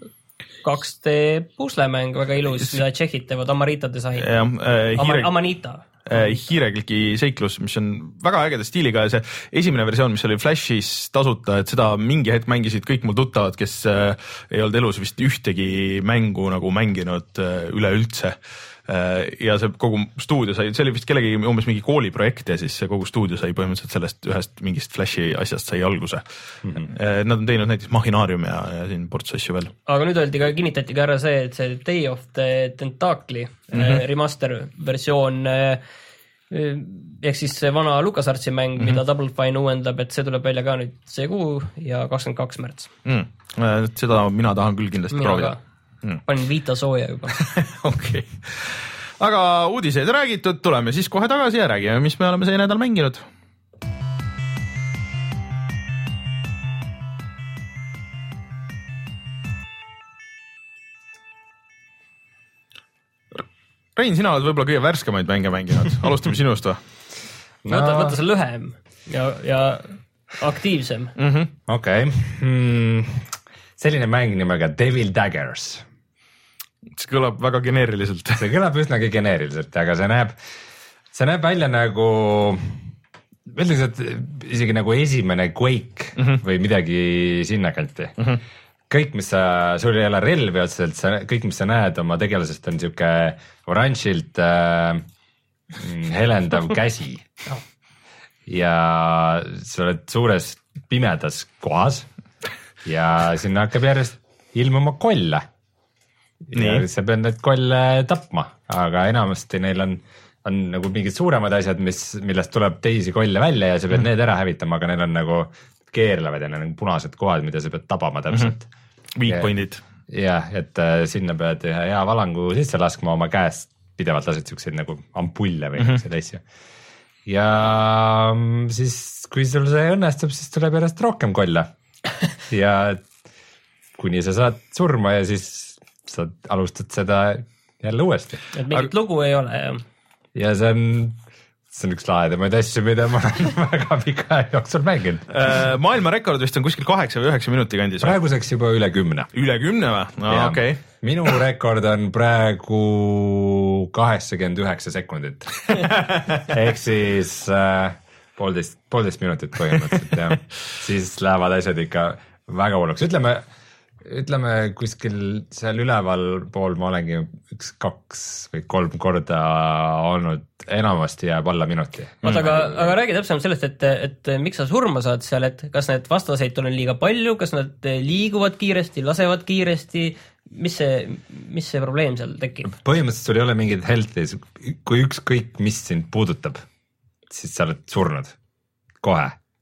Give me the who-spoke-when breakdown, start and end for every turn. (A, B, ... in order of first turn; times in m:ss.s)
0:00.6-0:04.4 A
0:04.2-0:05.3 B
0:05.0-0:06.3 A
0:06.0-0:26.2 B
0:26.8-0:29.7 B
0:29.9-0:35.8 A
0:33.7-0:34.0 B
0:36.5-0:42.9 A
0:43.0-0:46.2 B
0:45.1-0:45.6 A
0:46.2-0:47.4 A
0:47.3-0:53.2 B
1:04.0-1:06.8 B
1:07.6-1:08.2 C
1:07.7-1:11.1 A
1:11.2-1:11.5 B
1:11.7-1:15.8 C
1:17.0-1:18.5 B
1:18.4-1:20.4 C
1:21.1-1:22.8 C
1:23.5-1:28.1 C
1:28.9-1:35.0 C
1:35.8-1:37.4 C
1:38.5-1:42.1 C
1:42.8-1:45.5 C
1:46.4-1:58.7 C
1:46.5-1:46.8 B
1:59.2-1:59.8 B
2:00.1-2:06.4 C
2:07.2-2:11.7 C
2:12.5-2:13.0 C
2:14.0-2:18.4 C
2:18.5-2:19.8 A
2:20.3-2:21.2 C
2:21.7-2:25.2 C
2:25.3-2:28.2 B
2:28.0-2:29.3 C
2:29.3-2:30.8 B
2:30.3-2:35.9 C
2:35.7-2:36.4 B
2:36.5-2:43.4 C
2:44.0-2:52.9 C
2:52.2-2:52.5 B
2:52.2-3:02.7 A
3:02.7-3:06.6 C
3:07.3-3:08.3 C
3:09.0-3:09.4 C